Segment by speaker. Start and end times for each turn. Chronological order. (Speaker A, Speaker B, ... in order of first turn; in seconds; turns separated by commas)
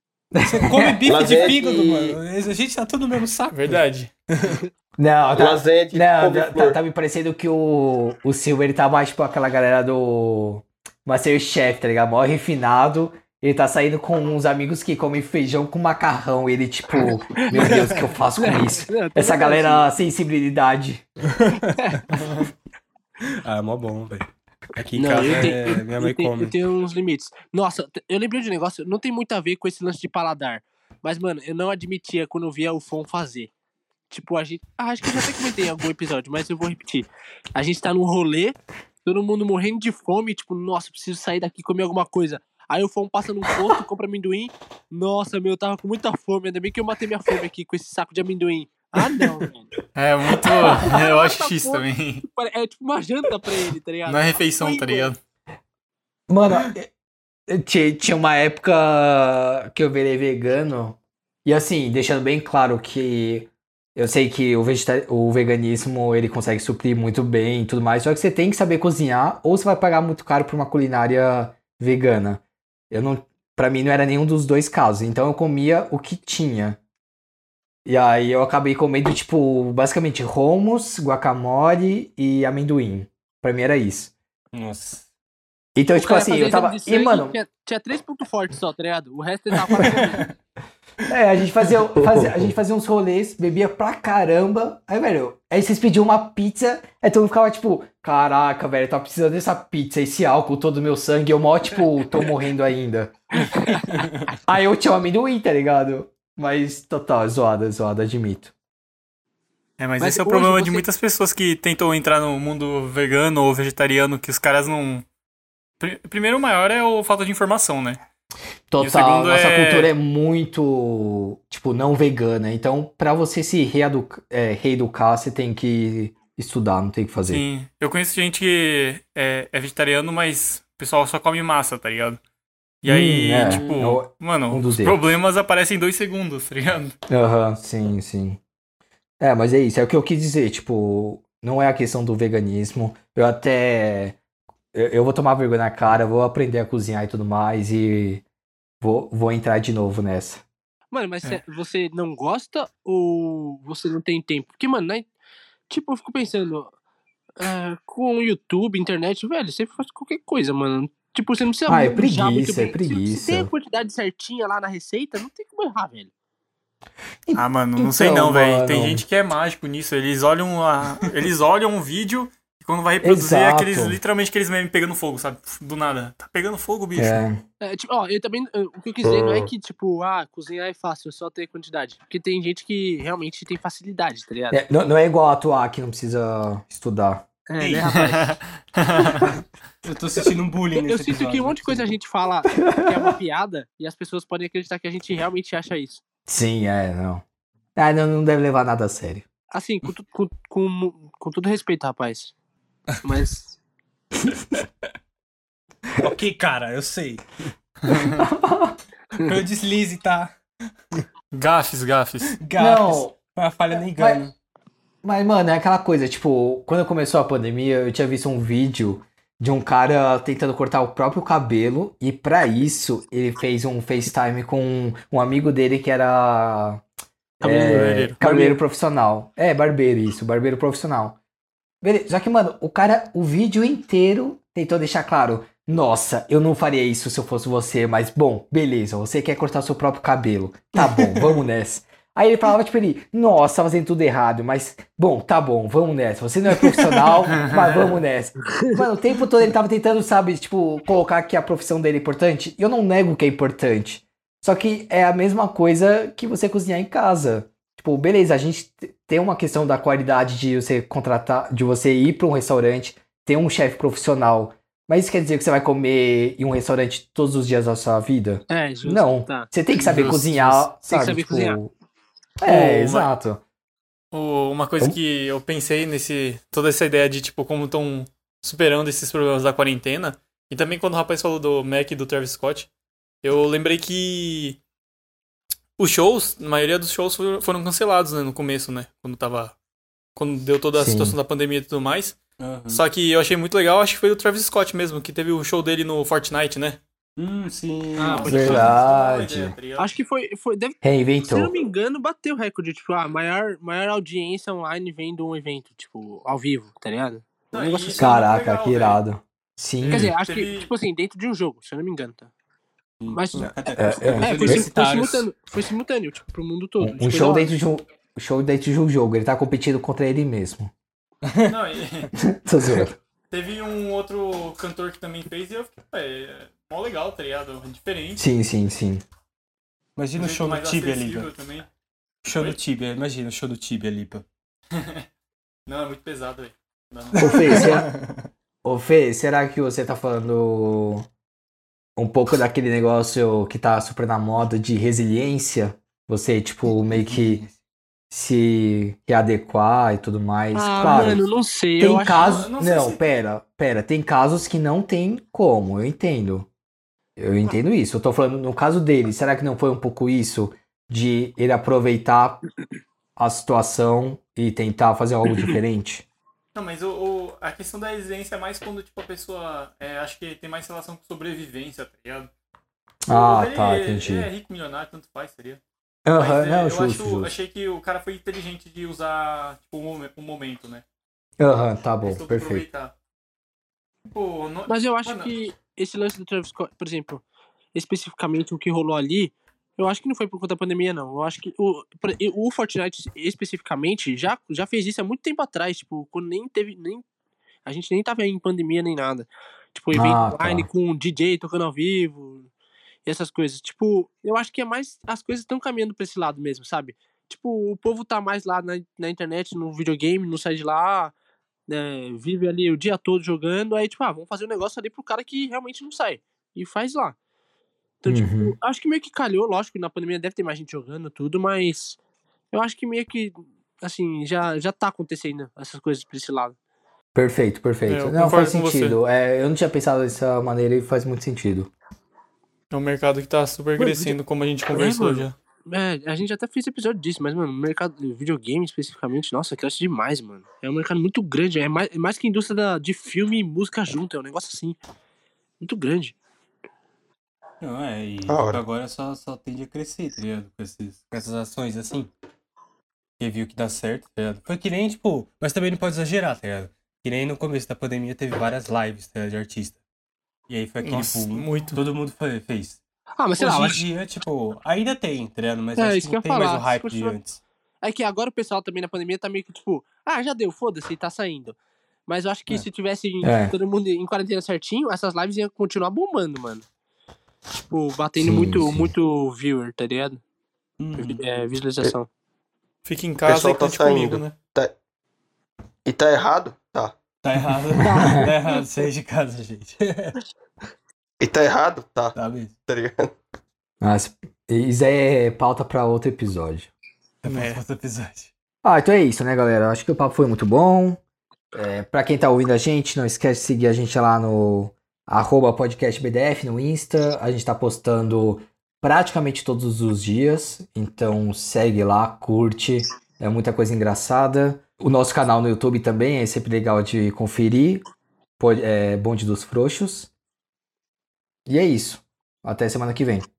Speaker A: 0.3-1.0, Speaker B: 0.5-4.7, Speaker C: 1.1-2.2, Speaker D: 3.5-4.1, Speaker A: 5.0-21.1, Speaker C: 5.3-6.8, Speaker E: 17.0-17.8, Speaker B: 17.6-18.0, Speaker E: 18.4-19.9, Speaker B: 21.3-22.3, Speaker E: 21.8-22.0, Speaker B: 23.2-26.6, Speaker E: 24.9-33.5, Speaker E: 34.1-49.7, Speaker D: 50.0-52.3, Speaker E: 50.8-55.1, Speaker D: 54.1-55.2, Speaker A: 56.3-56.9, Speaker A: 57.5-76.8, Speaker A: 77.8-84.1, Speaker B: 84.5-85.1, Speaker A: 85.8-87.4, Speaker E: 86.0-90.2, Speaker B: 89.8-90.3, Speaker A: 91.1-103.2, Speaker E: 103.4-104.0, Speaker A: 104.5-108.5, Speaker D: 109.8-115.0, Speaker E: 110.0-110.8, Speaker D: 115.8-118.0, Speaker A: 118.7-127.4, Speaker D: 118.8-119.9, Speaker D: 127.3-132.2, Speaker D: 132.8-137.0, Speaker A: 132.8-135.1, Speaker B: 133.5-133.8, Speaker A: 137.1-138.4, Speaker A: 139.2-144.2, Speaker A: 144.7-148.2, Speaker A: 148.8-150.4, Speaker E: 150.9-155.1, Speaker E: 155.7-156.7, Speaker E: 157.4-166.1, Speaker A: 161.7-163.5, Speaker A: 167.3-169.0, Speaker D: 167.4-177.2, Speaker A: 173.0-174.0, Speaker A: 176.9-177.4, Speaker E: 177.6-184.6, Speaker C: 179.0-179.5, Speaker A: 184.5-187.3, Speaker E: 187.5-188.4, Speaker B: 187.6-188.0, Speaker D: 188.0-189.4, Speaker B: 189.8-191.9, Speaker E: 190.7-196.0, Speaker A: 192.6-193.1, Speaker A: 196.3-197.2, Speaker A: 197.8-199.3, Speaker E: 199.5-202.3, Speaker E: 203.0-203.6, Speaker B: 206.0-207.2, Speaker D: 207.9-208.2, Speaker A: 207.9-208.8, Speaker B: 209.1-210.4, Speaker D: 211.3-212.4, Speaker B: 212.3-214.3, Speaker A: 212.6-213.2, Speaker A: 213.7-214.2, Speaker A: 215.0-226.8, Speaker E: 227.4-228.6, Speaker A: 227.4-231.2, Speaker D: 227.7-228.2, Speaker A: 231.8-271.7, Speaker E: 248.6-248.8, Speaker E: 268.5-269.5, Speaker D: 269.8-270.7, Speaker E: 270.8-271.6, Speaker A: 272.4-273.4, Speaker D: 272.5-273.1, Speaker D: 274.1-282.7, Speaker D: 283.2-284.6, Speaker D: 285.8-289.6, Speaker D: 290.2-296.8, Speaker A: 290.8-291.2, Speaker B: 292.4-292.8, Speaker B: 297.2-298.8, Speaker E: 298.0-298.8, Speaker D: 298.1-300.0, Speaker A: 298.3-299.6, Speaker E: 299.8-308.1, Speaker A: 300.8-301.5, Speaker D: 307.5-309.0, Speaker A: 308.0-310.1, Speaker D: 309.8-310.7, Speaker E: 309.9-312.3, Speaker B: 313.0-315.3, Speaker E: 313.1-313.5, Speaker A: 313.4-314.7, Speaker E: 314.2-317.5, Speaker A: 316.8-320.7, Speaker B: 321.2-321.6, Speaker D: 321.5-322.1, Speaker A: 322.2-323.0, Speaker D: 323.3-328.2, Speaker A: 328.2-329.0, Speaker B: 330.0-331.3, Speaker D: 330.2-331.7, Speaker B: 332.2-334.2, Speaker D: 332.3-332.6, Speaker D: 334.7-335.1, Speaker D: 335.7-337.8, Speaker B: 337.1-338.1, Speaker A: 337.2-337.9, Speaker A: 338.6-341.1, Speaker A: 342.0-347.4, Speaker B: 346.7-347.5, Speaker A: 348.1-351.2, Speaker E: 350.5-352.5, Speaker A: 351.8-356.5, Speaker D: 352.1-353.1, Speaker A: 357.2-362.4, Speaker A: 363.2-366.1, Speaker D: 366.5-372.3, Speaker A: 373.1-374.3, Speaker D: 373.1-375.6, Speaker A: 376.1-377.3, Speaker D: 376.2-380.8, Speaker A: 381.4-382.7, Speaker D: 382.0-382.9, Speaker D: 384.1-385.4, Speaker E: 384.7-387.2, Speaker E: 387.7-397.1, Speaker E: 397.6-402.5, Speaker A: 399.9-400.7, Speaker E: 403.1-411.1, Speaker E: 411.7-417.2, Speaker E: 418.0-422.0, Speaker A: 418.1-418.6, Speaker E: 422.5-426.6, Speaker A: 427.1-431.7, Speaker D: 427.9-429.0, Speaker D: 432.7-435.3, Speaker E: 433.8-434.2, Speaker E: 434.7-444.8, Speaker E: 445.6-446.2, Speaker B: 447.6-452.1, Speaker C: 448.3-448.6, Speaker B: 453.2-459.8, Speaker B: 460.5-462.8, Speaker D: 460.8-461.8, Speaker E: 463.2-463.9, Speaker B: 463.4-467.4, Speaker E: 465.8-467.2, Speaker E: 467.8-476.6, Speaker A: 473.2-473.6, Speaker E: 477.7-480.2, Speaker A: 478.2-478.9, Speaker B: 480.8-481.2, Speaker E: 480.9-482.1, Speaker D: 482.9-484.4, Speaker C: 483.3-484.8, Speaker C: 485.9-487.0, Speaker B: 487.2-490.2, Speaker E: 487.8-488.6, Speaker A: 488.0-488.3, Speaker C: 491.2-493.1, Speaker B: 492.1-492.6, Speaker A: 493.8-496.7, Speaker B: 497.2-498.3, Speaker D: 497.2-497.6, Speaker A: 498.6-501.0, Speaker A: 501.5-517.8, Speaker A: 518.4-520.1, Speaker A: 521.5-523.3